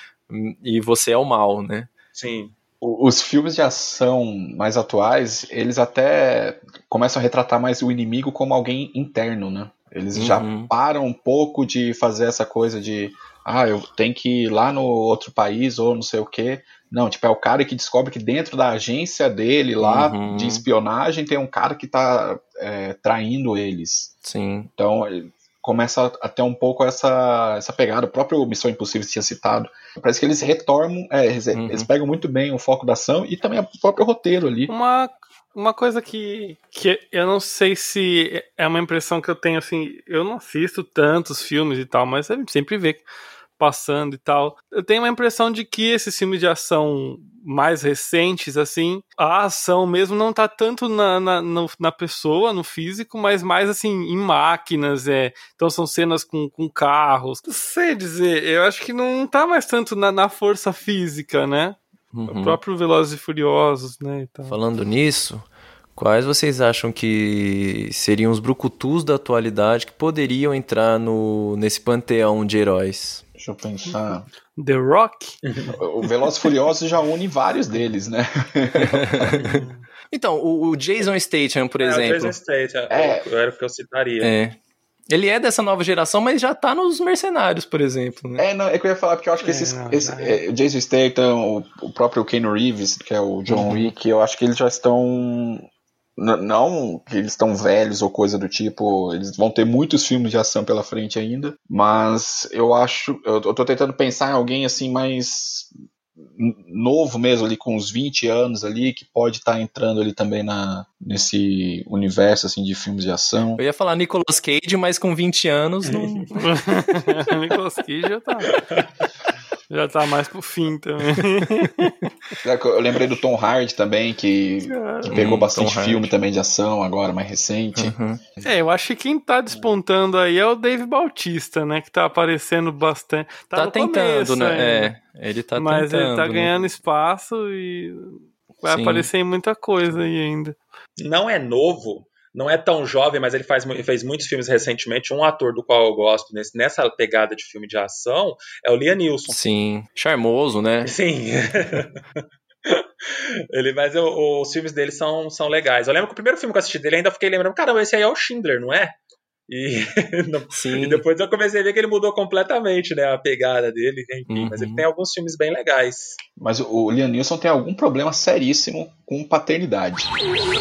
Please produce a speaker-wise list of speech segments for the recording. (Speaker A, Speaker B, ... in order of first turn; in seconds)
Speaker A: 0.3-1.9, 10.1-10.7, 19.8-20.6, 24.2-24.7, 31.5-31.9, 62.1-62.6, 64.5-73.2, 80.1-82.3, 84.2-84.6, 85.1-88.5, 93.5-93.9, 113.6-116.3, 125.1-126.1, 127.8-128.2, 133.6-136.6, 138.7-139.1, 149.3-150.9, 160.5-161.0, 164.3-164.9
Speaker B: 2.1-2.5, 75.5-75.8, 81.8-84.3, 115.9-116.3, 118.5-118.8, 141.0-149.4, 150.8-152.0, 152.7-159.0, 159.5-166.2
Speaker C: 2.8-24.1, 24.8-34.7, 73.4-74.3, 75.8-79.5, 82.9-83.2, 88.4-95.7, 96.2-113.6, 122.4-128.0, 166.4-170.1
Speaker D: 34.7-43.1, 43.6-64.6, 74.6-75.4, 79.5-79.8, 89.4-90.4, 116.3-118.5, 119.7-121.9, 124.7-125.2, 128.4-134.9, 135.6-140.6